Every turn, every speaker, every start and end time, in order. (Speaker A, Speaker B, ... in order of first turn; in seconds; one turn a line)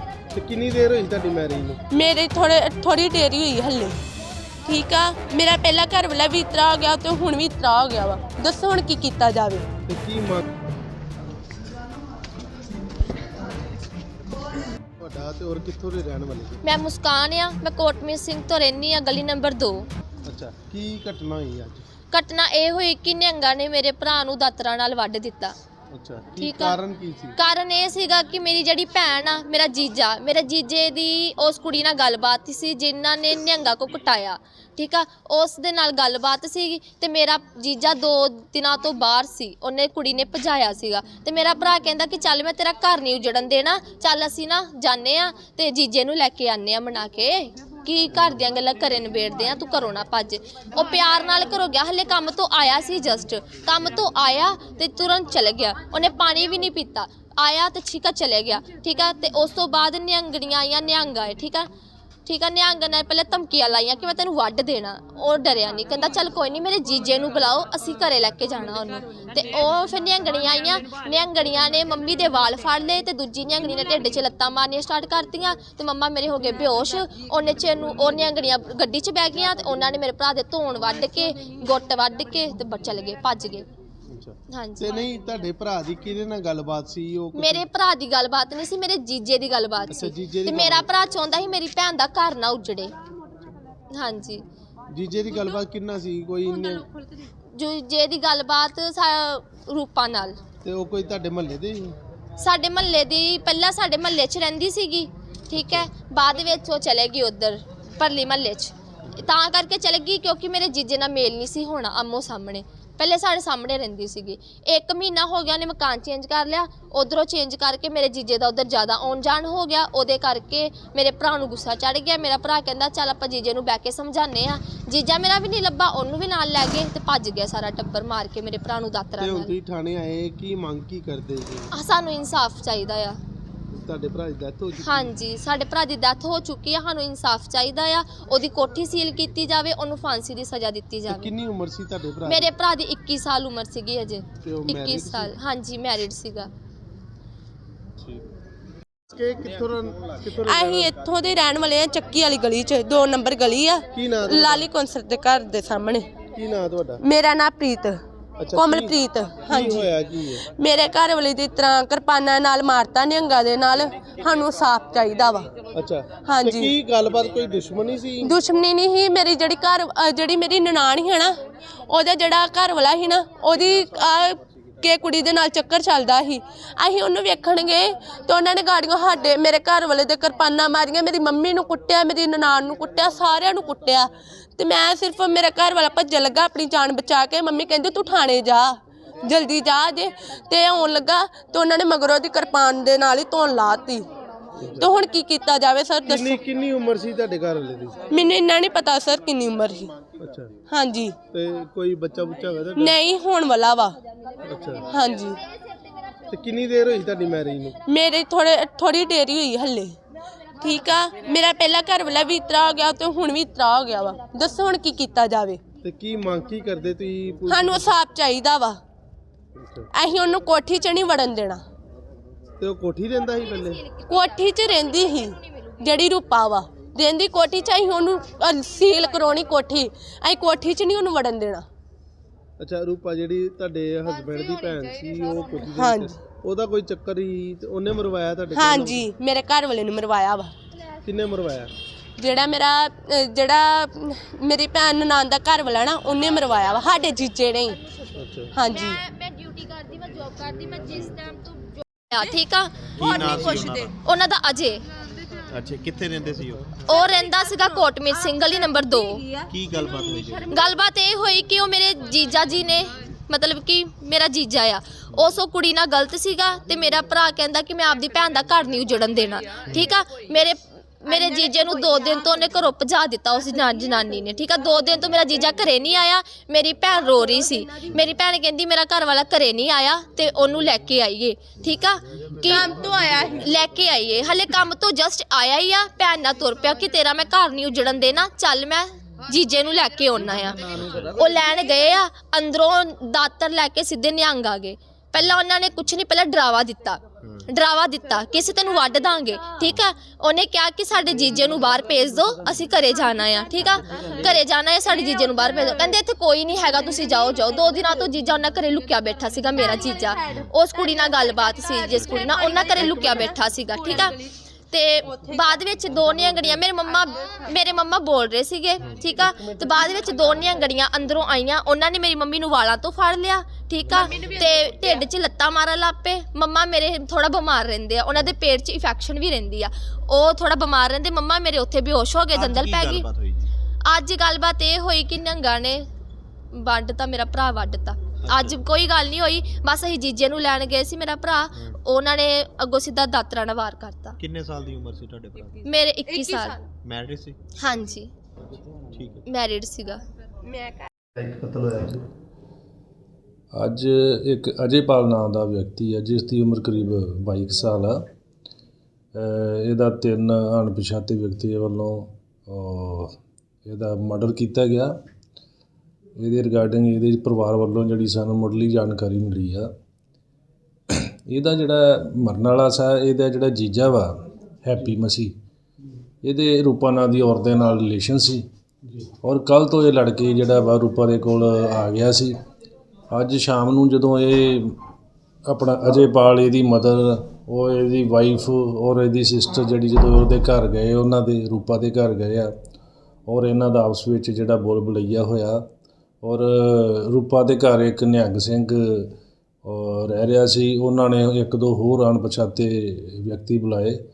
Speaker A: 0.3-1.8
Speaker B: 1.9-4.0
Speaker B: 4.6-9.7
Speaker A: 9.9-10.4
Speaker A: 15.0-16.6
Speaker C: 16.6-19.9
Speaker A: 20.2-21.9
Speaker C: 22.1-25.5
Speaker A: 25.9-27.4
Speaker C: 26.4-26.8
Speaker C: 27.4-61.7
Speaker C: 62.2-83.7
Speaker A: 84.1-87.7
Speaker C: 84.5-84.9
Speaker C: 87.3-92.9
Speaker A: 89.9-90.9
Speaker C: 93.9-94.4
Speaker A: 94.9-96.9
Speaker C: 97.5-100.4
Speaker A: 100.6-102.0
Speaker C: 102.4-129.5
Speaker A: 105.5-105.9
Speaker A: 129.2-131.7
Speaker C: 131.7-133.2
Speaker A: 133.7-135.1
Speaker C: 134.8-141.3
Speaker A: 141.1-142.5
Speaker C: 142.2-146.5
Speaker A: 144.4-145.3
Speaker A: 148.0-148.3
Speaker A: 149.1-150.9
Speaker B: 150.4-156.1
Speaker A: 153.9-154.7
Speaker A: 156.3-157.0
Speaker B: 157.0-158.0
Speaker A: 158.4-160.4
Speaker B: 158.5-159.9
Speaker B: 160.4-165.5
Speaker A: 165.7-168.4
Speaker B: 166.2-166.7
Speaker B: 168.2-194.1
Speaker A: 194.6-194.9
Speaker B: 194.8-196.4
Speaker A: 196.1-198.1
Speaker B: 198.1-199.9
Speaker A: 200.2-200.5
Speaker B: 200.7-201.1
Speaker A: 201.3-203.0
Speaker B: 202.8-203.9
Speaker A: 204.4-204.9
Speaker B: 204.9-205.4
Speaker A: 206.3-207.8
Speaker B: 207.9-210.0
Speaker B: 210.6-215.6
Speaker A: 215.8-217.9
Speaker B: 217.5-218.8
Speaker A: 219.6-219.9
Speaker B: 219.9-221.6
Speaker A: 222.6-223.8
Speaker B: 224.0-231.7
Speaker A: 232.6-239.1
Speaker B: 235.7-236.2
Speaker B: 238.5-240.5
Speaker A: 241.0-241.7
Speaker B: 242.2-247.8
Speaker A: 248.1-248.5
Speaker B: 248.5-249.0
Speaker C: 249.0-251.4
Speaker C: 252.1-254.8
Speaker D: 252.9-253.9
Speaker D: 255.5-256.8
Speaker C: 256.9-259.3
Speaker D: 259.5-260.6
Speaker C: 260.5-314.2
Speaker D: 269.7-269.9
Speaker D: 290.7-291.1
Speaker D: 297.2-297.5
Speaker D: 303.6-304.4
Speaker D: 312.0-312.3
Speaker C: 314.7-333.1
Speaker A: 319.2-319.7
Speaker D: 332.3-333.5
Speaker C: 333.9-335.8
Speaker C: 336.5-344.2
Speaker D: 338.2-338.6
Speaker D: 344.2-345.6
Speaker C: 345.6-346.6
Speaker D: 346.7-347.4
Speaker C: 347.6-348.1
Speaker D: 348.9-349.2
Speaker C: 349.3-350.0
Speaker A: 351.1-352.0
Speaker E: 353.5-358.0
Speaker E: 359.1-364.9
Speaker E: 366.2-369.7
Speaker E: 370.9-375.3
Speaker E: 376.2-378.4
Speaker E: 379.2-382.4
Speaker E: 383.1-384.8
Speaker E: 385.4-392.5
Speaker E: 393.3-395.6
Speaker E: 396.2-404.0